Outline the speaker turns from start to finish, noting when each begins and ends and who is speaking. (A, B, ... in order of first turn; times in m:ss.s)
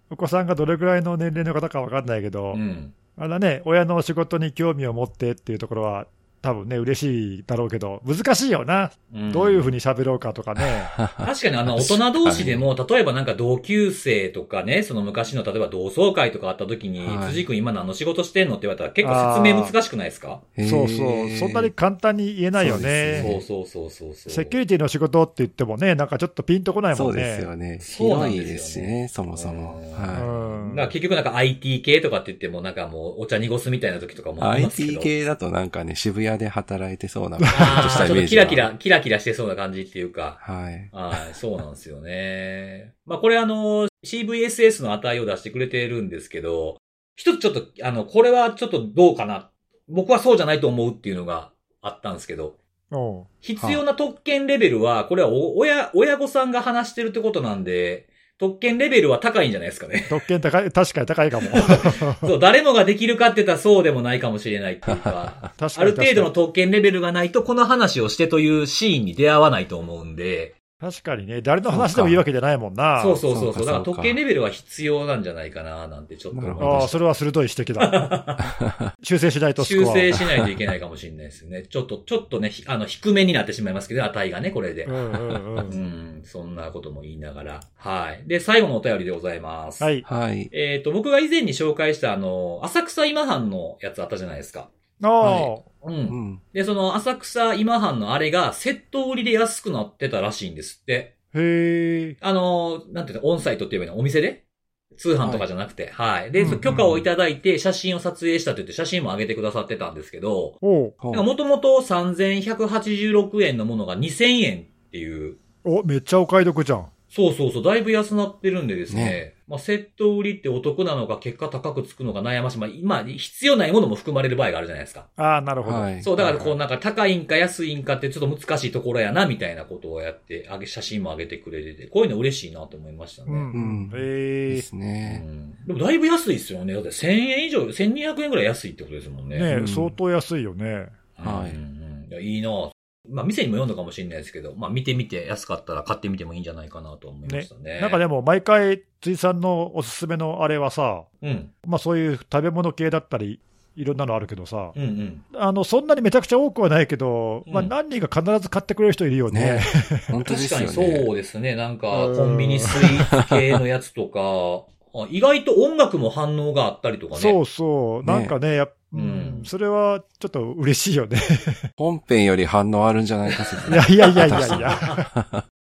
0:00.1-0:02.6 A
0:02.5-0:02.9 B
0:03.2-0:10.9 A
0:09.1-0:09.8 B
0:10.6-0:12.6 C
0:11.2-0:20.4 B
0:17.0-0:17.4 C
0:19.0-0:19.8 A
0:20.6-0:21.7 C
0:20.6-0:23.4 A
0:22.6-0:23.4 C
0:23.1-0:24.6 B
0:24.3-0:27.5 A
0:26.9-0:30.3 C
0:27.8-0:35.1 B
0:30.1-0:30.9 A
0:34.4-0:38.7 C
0:37.4-0:37.9 A
0:37.5-0:40.4 B
0:40.4-0:40.9 C
0:40.9-0:52.6 B
0:52.9-0:53.3 A
0:53.4-1:00.2 B
1:00.1-1:02.3 A
1:01.5-1:10.5 B
1:04.8-1:05.5 C
1:05.6-1:06.3 A
1:10.8-1:13.2 A
1:11.7-1:12.2 C
1:13.0-1:17.0 B
1:13.3-1:14.2 C
1:16.3-1:16.9 C
1:16.6-1:18.0 A
1:17.8-1:18.5 B
1:18.4-1:18.9 C
1:19.0-1:20.2 A
1:19.6-1:25.0 B
1:24.8-1:25.8 A
1:25.3-1:25.7 C
1:25.7-1:29.9 B
1:29.8-1:30.1 A
1:30.0-1:30.5 C
1:30.5-1:34.7 B
1:35.0-1:35.6 A
1:35.2-1:41.1 B
1:36.1-1:36.4 C
1:41.3-1:42.2 A
1:42.2-1:44.4 B
1:44.9-1:50.6 B
1:45.2-1:45.5 C
1:46.4-1:47.0 A
1:46.6-1:46.9 C
1:50.6-1:51.0 A
1:51.0-1:51.3 C
1:51.1-1:55.4 B
1:55.6-1:56.9 A
1:57.1-2:05.1 B
1:58.9-1:59.2 C
2:05.2-2:06.0 A
2:05.6-2:06.5 C
2:06.0-2:13.5 B
2:13.3-2:14.6 A
2:13.5-2:15.2 C
2:15.0-2:19.5 B
2:19.3-2:21.0 A
2:19.5-2:20.0 C
2:21.2-2:28.0 B
2:21.2-2:21.6 C
2:27.2-2:31.1 A
2:31.2-2:31.5 B
2:31.6-2:34.8 A
2:34.8-2:35.2 B
2:35.3-2:40.2 A
2:37.4-2:37.7 B
2:39.3-2:41.1 C
2:40.2-2:47.4 B
2:41.9-2:43.1 A
2:43.1-2:43.4 C
2:47.1-2:51.7 A
2:48.0-2:48.3 C
2:48.9-2:49.5 B
2:51.8-2:55.4 C
2:53.3-2:55.0 B
2:53.7-2:55.0 A